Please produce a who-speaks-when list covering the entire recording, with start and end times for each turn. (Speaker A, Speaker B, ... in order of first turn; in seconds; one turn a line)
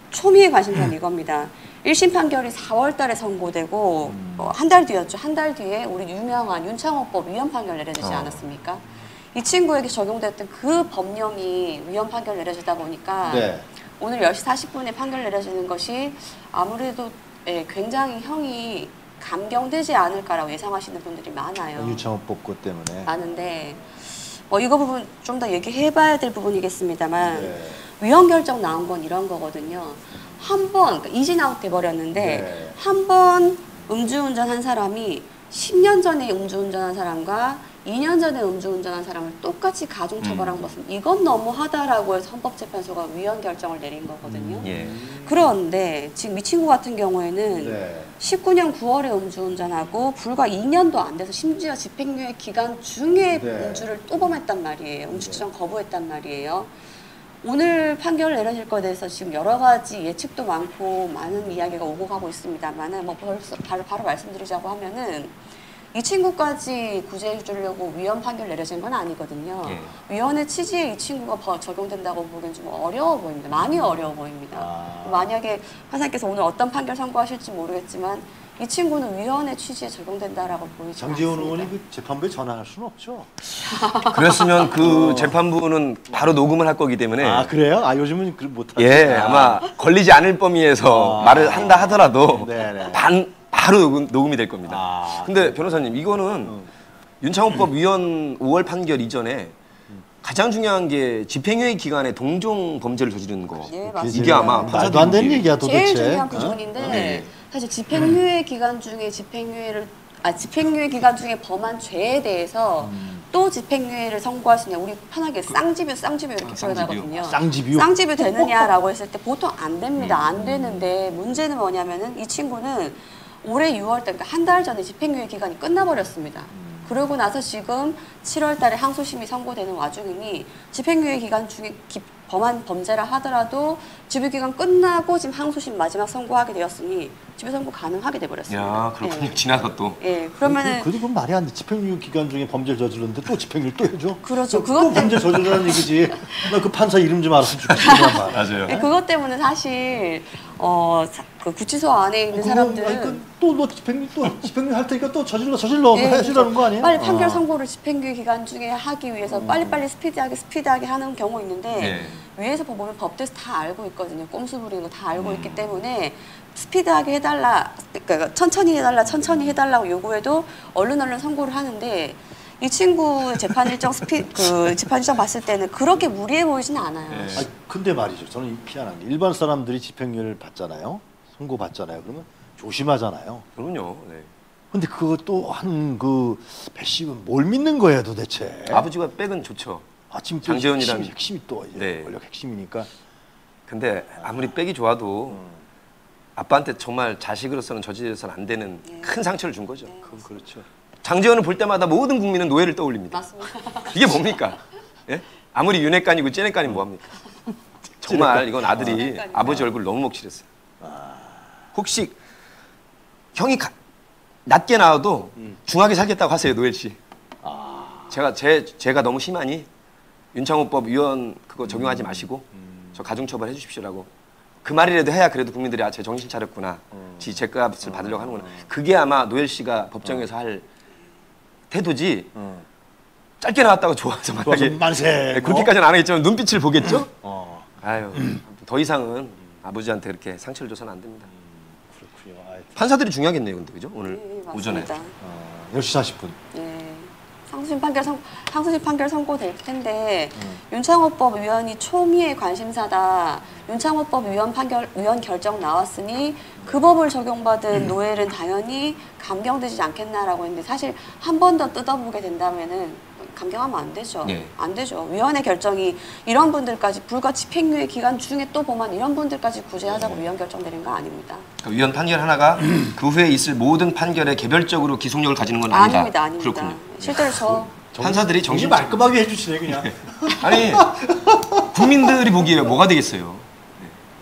Speaker A: 0.1-22.0
Speaker B: 4.0-4.5
Speaker C: 8.0-8.4
Speaker B: 13.2-13.7
Speaker B: 21.8-23.1
Speaker A: 23.1-56.7
Speaker B: 27.2-27.9
Speaker B: 32.1-32.8
Speaker C: 40.2-40.7
Speaker B: 44.2-45.5
Speaker C: 44.6-45.0
Speaker B: 47.5-48.2
Speaker B: 53.3-53.9
Speaker B: 55.1-55.4
Speaker A: 57.4-65.4
Speaker A: 65.9-81.7
Speaker C: 69.6-69.9
Speaker B: 74.5-75.3
Speaker B: 81.0-83.6
Speaker A: 83.8-84.1
Speaker C: 84.0-87.5
Speaker B: 84.8-85.4
Speaker B: 87.2-89.6
Speaker C: 88.8-96.5
Speaker B: 90.9-93.0
Speaker B: 94.7-95.6
Speaker B: 96.5-96.7
Speaker C: 97.2-99.5
Speaker C: 100.2-105.5
Speaker B: 103.6-107.0
Speaker A: 103.7-139.4
Speaker C: 106.9-107.3
Speaker B: 112.8-113.2
Speaker C: 116.4-117.2
Speaker B: 117.2-118.7
Speaker C: 120.0-120.3
Speaker B: 126.5-126.9
Speaker C: 138.5-140.0
Speaker A: 140.0-140.9
Speaker B: 140.4-148.9
Speaker A: 144.2-146.4
Speaker C: 147.7-148.8
Speaker A: 147.8-153.2
Speaker B: 152.3-157.4
Speaker A: 155.9-177.4
Speaker B: 159.3-159.8
Speaker C: 161.8-162.1
Speaker B: 161.8-162.2
Speaker C: 165.2-165.8
Speaker C: 177.1-177.5
Speaker B: 177.3-183.4
Speaker C: 183.6-184.3
Speaker B: 184.7-188.9
Speaker C: 188.7-189.9
Speaker B: 190.1-192.9
Speaker C: 190.4-191.1
Speaker C: 191.7-192.2
Speaker C: 193.7-195.4
Speaker B: 195.3-195.6
Speaker C: 196.4-199.9
Speaker A: 198.8-199.2
Speaker A: 199.8-200.3
Speaker B: 200.0-200.7
Speaker C: 201.0-203.3
Speaker A: 203.1-204.2
Speaker C: 203.8-207.1
Speaker B: 208.0-209.0
Speaker C: 208.0-210.4
Speaker A: 208.8-209.7
Speaker B: 210.8-211.5
Speaker C: 211.7-212.2
Speaker C: 213.3-213.7
Speaker C: 214.4-217.0
Speaker B: 217.4-218.1
Speaker C: 218.1-219.7
Speaker C: 220.3-224.1
Speaker B: 221.7-223.0
Speaker C: 224.6-230.7
Speaker B: 226.9-228.7
Speaker C: 231.7-232.3
Speaker B: 232.3-232.6
Speaker C: 233.4-234.8
Speaker B: 234.4-235.7
Speaker C: 235.3-237.1
Speaker B: 237.1-238.4
Speaker C: 237.8-241.3
Speaker B: 241.3-242.8
Speaker C: 242.8-244.9
Speaker A: 244.0-245.1
Speaker B: 245.2-246.4
Speaker A: 246.5-271.5
Speaker C: 264.2-264.5
Speaker C: 270.0-270.2
Speaker C: 271.6-279.1
Speaker A: 275.7-277.7
Speaker B: 277.8-282.4
Speaker C: 279.7-281.0
Speaker C: 281.7-283.9